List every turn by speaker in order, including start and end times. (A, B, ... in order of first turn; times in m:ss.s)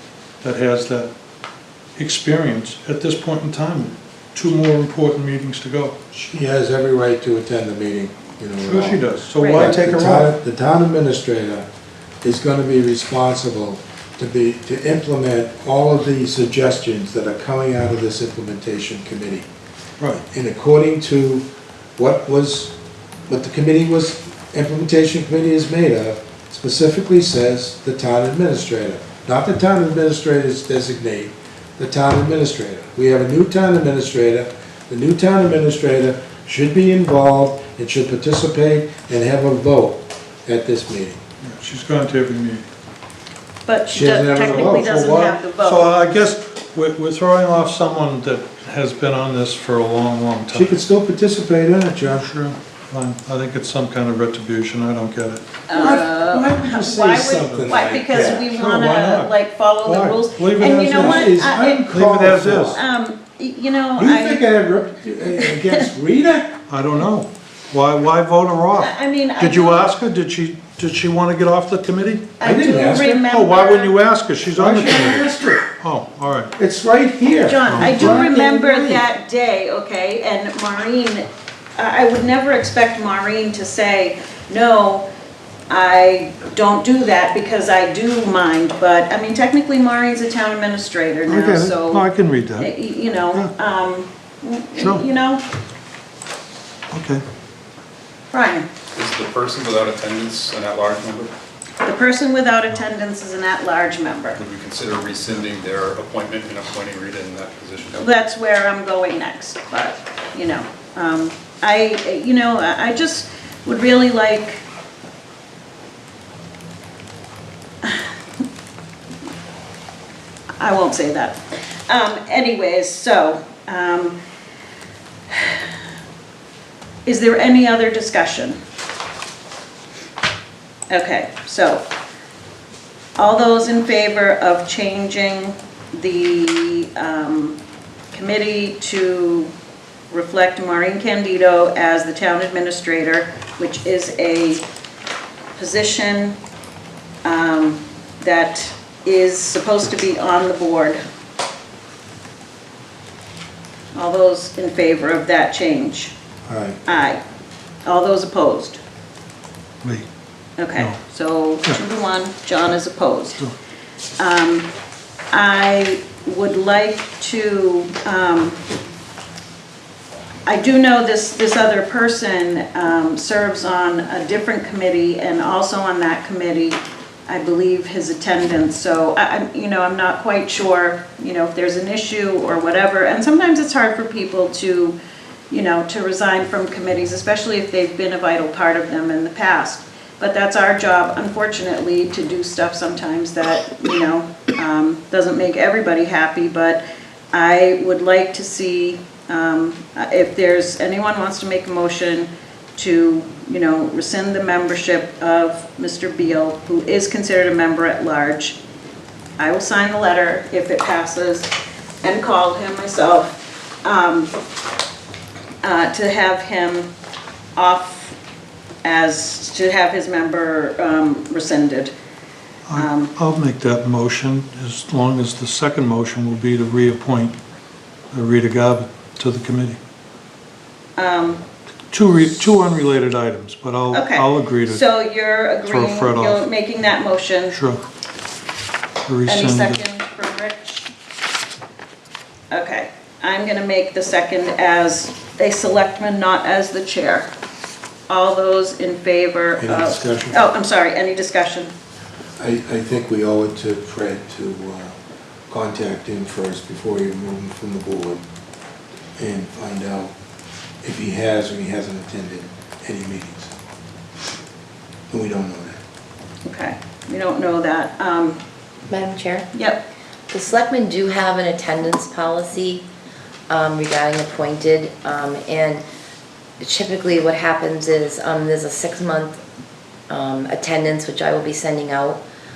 0:00.4-0:01.1 A
0:02.0-0:06.0 A
0:06.1-0:11.7 B
0:08.6-0:10.3 A
0:09.4-0:09.7 C
0:12.2-0:19.5 B
0:20.3-0:21.5 B
0:22.0-0:22.7 B
0:23.3-0:41.2 B
0:41.4-0:42.6 A
0:43.7-0:46.0 C
0:43.9-0:45.2 B
0:44.4-0:50.8 A
0:50.5-0:52.2 B
0:52.0-0:55.4 A
0:55.7-1:01.8 C
0:55.7-0:58.5 B
0:58.2-1:01.3 A
1:00.6-1:02.8 B
1:01.9-1:02.8 A
1:02.7-1:04.5 C
1:04.0-1:06.6 B
1:05.4-1:05.9 C
1:06.7-1:12.3 A
1:08.8-1:09.9 C
1:12.4-1:14.0 C
1:12.4-1:13.2 B
1:13.3-1:15.3 A
1:14.5-1:15.7 B
1:15.8-1:16.5 A
1:16.6-1:19.0 B
1:17.4-1:25.1 C
1:17.7-1:18.3 A
1:25.7-1:35.4 C
1:31.3-1:32.8 A
1:34.8-1:35.0 A
1:36.9-1:37.2 A
1:38.3-1:38.7 C
1:38.9-1:41.3 D
1:41.8-1:44.4 C
1:44.4-1:48.0 D
1:47.9-1:54.6 C
2:00.6-2:04.2 C
2:05.3-2:05.7 C
2:07.1-2:08.6 C
2:10.9-2:11.9 C
2:13.2-2:17.6 C
2:18.1-2:19.5 C
2:20.1-2:24.6 C
2:25.6-2:26.4 C
2:27.2-2:31.0 C
2:33.9-2:36.2 C
2:36.5-2:36.8 B
2:36.9-2:37.2 C
2:37.8-2:38.8 C
2:40.6-2:43.4 C
2:44.2-2:44.7 C
2:45.3-2:48.6 C
2:50.5-3:05.0 C
3:05.5-3:28.6 C
3:29.4-3:33.3 C
3:33.8-3:34.4 C
3:35.6-3:36.9 C
3:37.6-3:38.2 C
3:38.8-3:41.9 C
3:42.7-3:47.4 A
3:42.7-3:43.1 C
3:48.1-3:49.8 A
3:51.0-3:51.4 C
3:51.9-3:54.8 A
3:53.9-3:57.6 C
3:55.7-3:56.4 A
3:57.5-3:57.8 A
3:59.0-3:59.8 A
3:59.3-4:00.9 C
4:02.5-4:07.3 C
4:08.1-4:11.7 C
4:09.6-4:10.4 B
4:12.4-4:15.0 B
4:15.5-4:18.2 B
4:19.2-4:20.1 B
4:20.8-4:23.5 B
4:25.1-4:25.8 B
4:26.4-4:28.4 C
4:28.9-4:29.5 E
4:29.5-4:29.8 C
4:30.3-4:32.9 E
4:33.5-4:35.8 E
4:36.6-4:39.4 E
4:40.1-4:42.2 E